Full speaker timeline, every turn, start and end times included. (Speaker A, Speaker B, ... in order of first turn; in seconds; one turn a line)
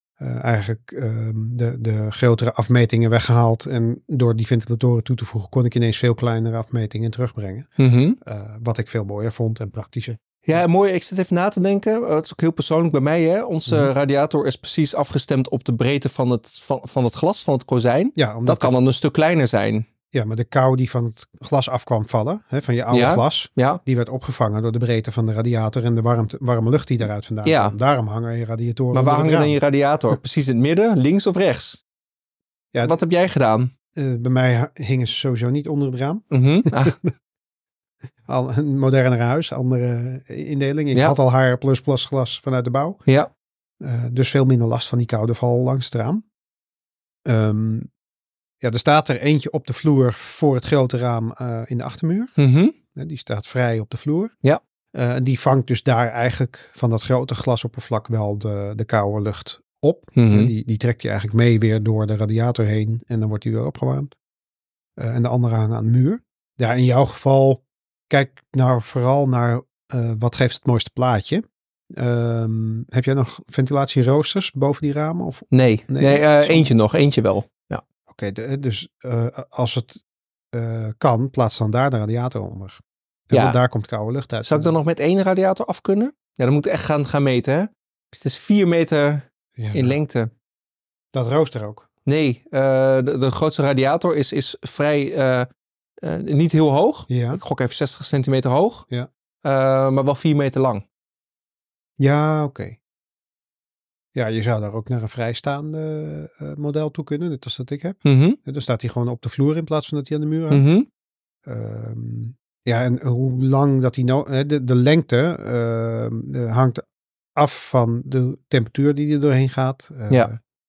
Speaker A: 0.2-7.7
Speaker B: 7.8-8.2
Speaker A: 8.2-10.6
Speaker B: 10.4-19.9
Speaker A: 18.2-18.8
Speaker A: 20.1-29.6
Speaker B: 22.9-23.8
Speaker B: 27.4-27.8
Speaker B: 28.9-31.8
Speaker B: 32.8-33.7
Speaker A: 34.0-37.1
Speaker B: 36.3-37.0
Speaker A: 38.3-43.0
Speaker A: 43.8-46.2
Speaker A: 47.2-47.9
Speaker A: 48.6-52.4
Speaker B: 52.4-52.8
Speaker A: 53.0-54.3
Speaker A: 54.9-64.1
Speaker B: 60.2-60.5
Speaker A: 65.0-76.7
Speaker B: 75.5-77.8
Speaker A: 78.1-84.7
Speaker B: 83.3-83.6
Speaker B: 84.5-90.3
Speaker A: 89.6-90.0
Speaker A: 91.1-91.9
Speaker B: 92.1-95.5
Speaker B: 96.0-98.9
Speaker A: 97.1-97.4
Speaker B: 99.4-100.8
Speaker A: 102.0-102.8
Speaker A: 104.2-110.7
Speaker B: 108.0-108.4
Speaker B: 110.5-110.9
Speaker A: 111.5-116.8
Speaker A: 117.4-120.4